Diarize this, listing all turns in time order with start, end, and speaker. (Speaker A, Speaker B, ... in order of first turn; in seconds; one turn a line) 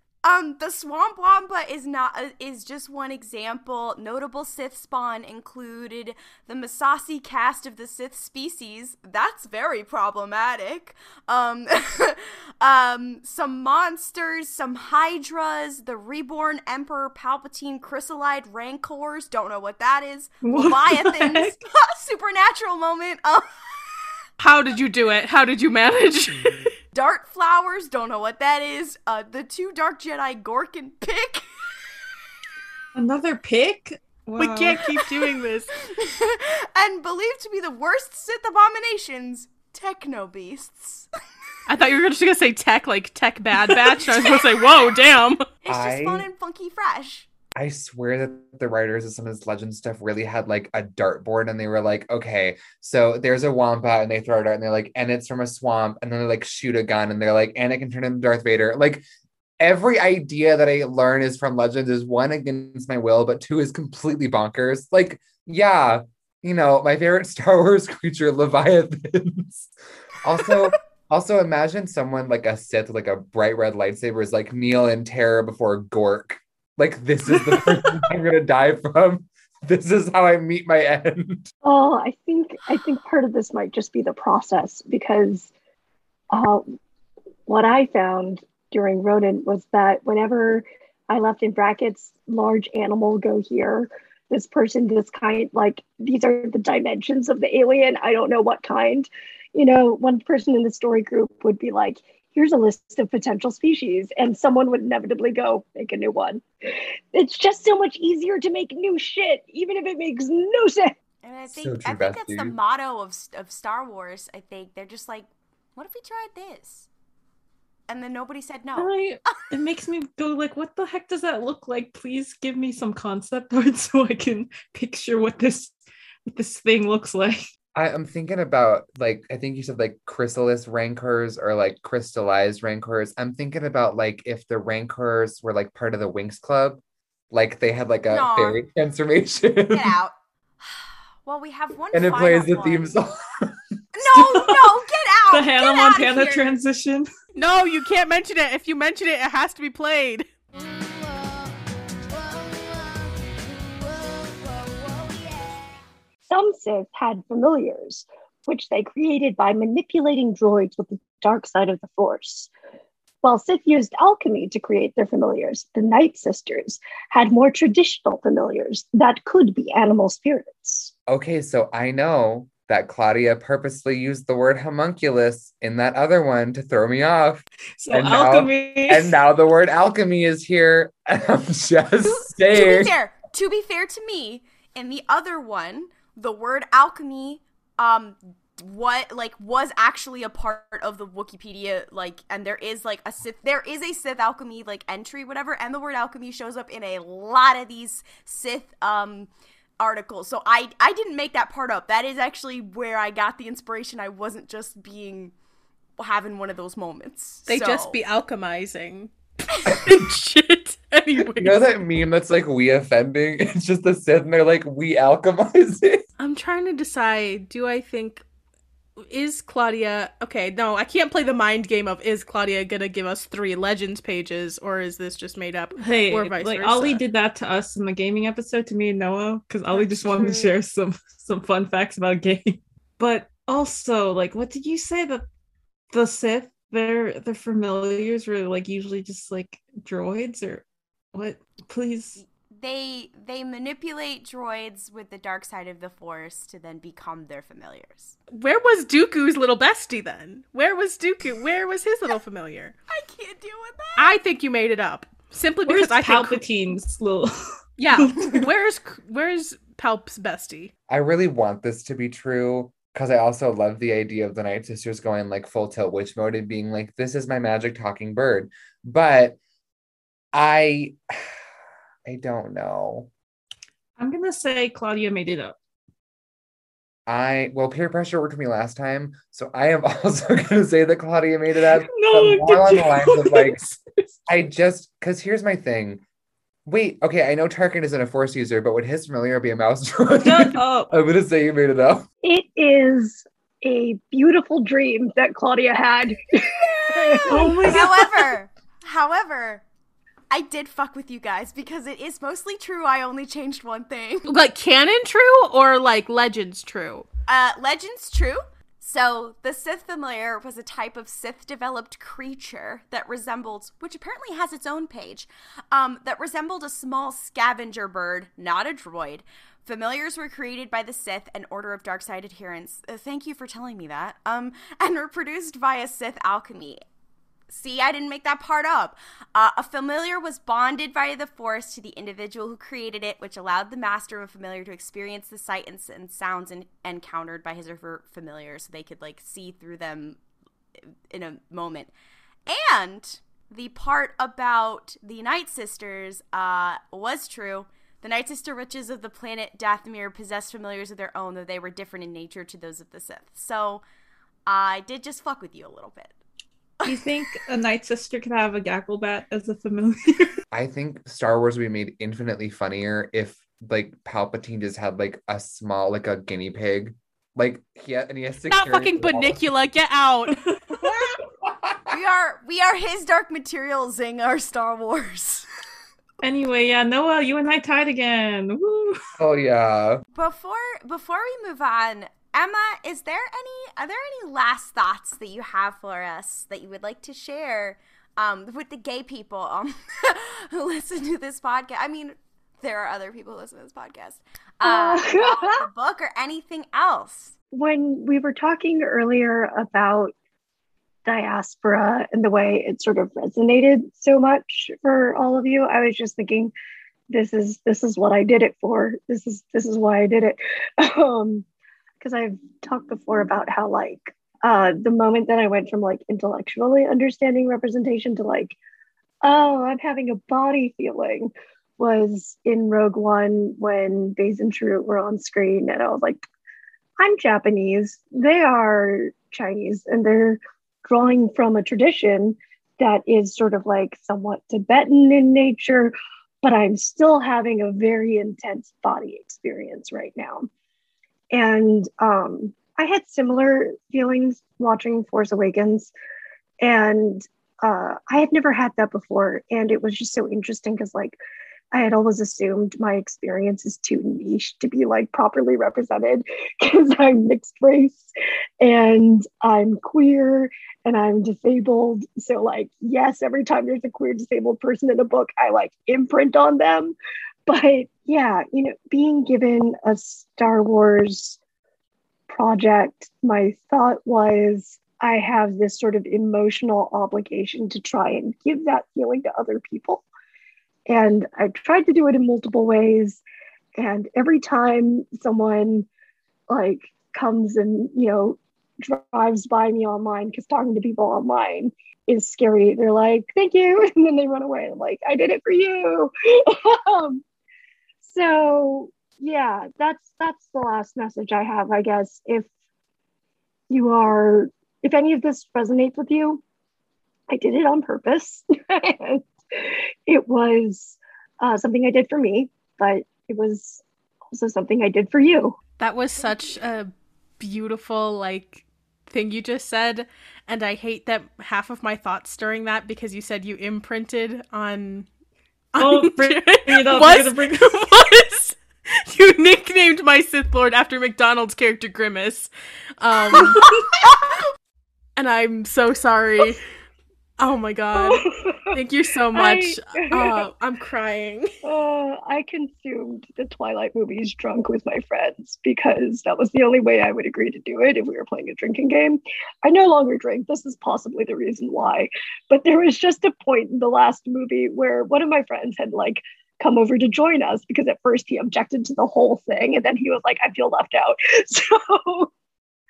Speaker A: 0.2-23.5
Speaker B: 20.4-21.6
Speaker C: 24.4-26.7
Speaker A: 26.9-31.5
Speaker B: 32.9-35.1
Speaker C: 34.4-35.7
Speaker A: 35.8-41.1
Speaker C: 41.7-45.4
Speaker A: 45.6-47.3
Speaker D: 45.7-46.3
Speaker D: 47.5-59.0
Speaker D: 59.6-69.7
Speaker D: 70.2-81.5
Speaker E: 81.6-85.5
Speaker E: 86.3-86.7
Speaker E: 87.5-106.4
Speaker E: 107.1-110.9
Speaker A: 111.2-116.9
Speaker D: 111.6-112.5
Speaker A: 117.9-119.4
Speaker B: 118.8-127.4
Speaker D: 127.7-140.0
Speaker A: 138.1-138.6
Speaker A: 139.7-143.0
Speaker D: 141.9-143.6
Speaker A: 143.9-146.5
Speaker B: 144.4-144.7
Speaker B: 145.3-147.1
Speaker C: 147.4-150.3
Speaker E: 156.3-162.5
Speaker E: 163.2-170.9
Speaker D: 171.1-182.9
Speaker B: 177.8-179.2
Speaker A: 182.0-205.3
Speaker A: 206.0-208.0
Speaker C: 207.5-211.7
Speaker D: 211.4-216.0
Speaker C: 216.2-218.2
Speaker C: 219.1-227.0
Speaker B: 225.8-235.2
Speaker C: 229.7-230.5
Speaker B: 235.9-242.2
Speaker A: 242.2-248.1
Speaker C: 248.3-252.7
Speaker A: 252.9-254.2
Speaker C: 254.0-256.4
Speaker B: 255.7-257.3
Speaker C: 257.8-260.7
Speaker B: 257.9-258.5
Speaker D: 260.9-269.4
Speaker D: 270.3-271.1
Speaker D: 272.1-273.1
Speaker B: 274.0-275.6
Speaker D: 277.1-283.7
Speaker B: 281.6-284.1
Speaker D: 284.3-286.0
Speaker D: 286.7-292.1
Speaker B: 290.2-290.9
Speaker E: 292.2-297.9
Speaker A: 297.1-299.6
Speaker B: 297.2-298.3
Speaker A: 300.3-304.3
Speaker C: 304.3-307.1
Speaker A: 307.3-326.8
Speaker A: 327.5-340.2
Speaker A: 341.1-341.9
Speaker A: 342.5-353.8
Speaker A: 354.5-356.1
Speaker A: 356.8-357.1
Speaker B: 356.9-360.3
Speaker D: 360.5-369.5
Speaker C: 368.5-370.4
Speaker B: 370.6-371.1
Speaker D: 371.4-371.8
Speaker A: 371.9-375.4
Speaker B: 376.2-379.0
Speaker D: 379.2-380.0
Speaker A: 380.1-397.4
Speaker E: 394.6-395.6
Speaker E: 397.5-400.1
Speaker E: 401.1-406.5
Speaker E: 407.1-411.4
Speaker E: 412.0-418.6
Speaker E: 419.2-426.2
Speaker E: 427.0-440.5
Speaker E: 441.3-445.9
Speaker E: 446.6-451.2
Speaker E: 451.7-466.9
Speaker E: 467.5-471.4
Speaker E: 472.3-480.0
Speaker E: 480.9-483.2
Speaker E: 483.8-485.9
Speaker E: 486.5-497.2
Speaker E: 498.0-502.5
Speaker E: 503.7-506.4
Speaker E: 507.3-515.6
Speaker C: 515.8-525.1
Speaker C: 525.7-533.6
Speaker B: 525.8-527.9
Speaker E: 533.3-533.9
Speaker C: 535.2-536.6
Speaker C: 537.4-541.5
Speaker E: 537.9-538.8
Speaker E: 539.3-540.4
Speaker E: 541.6-562.3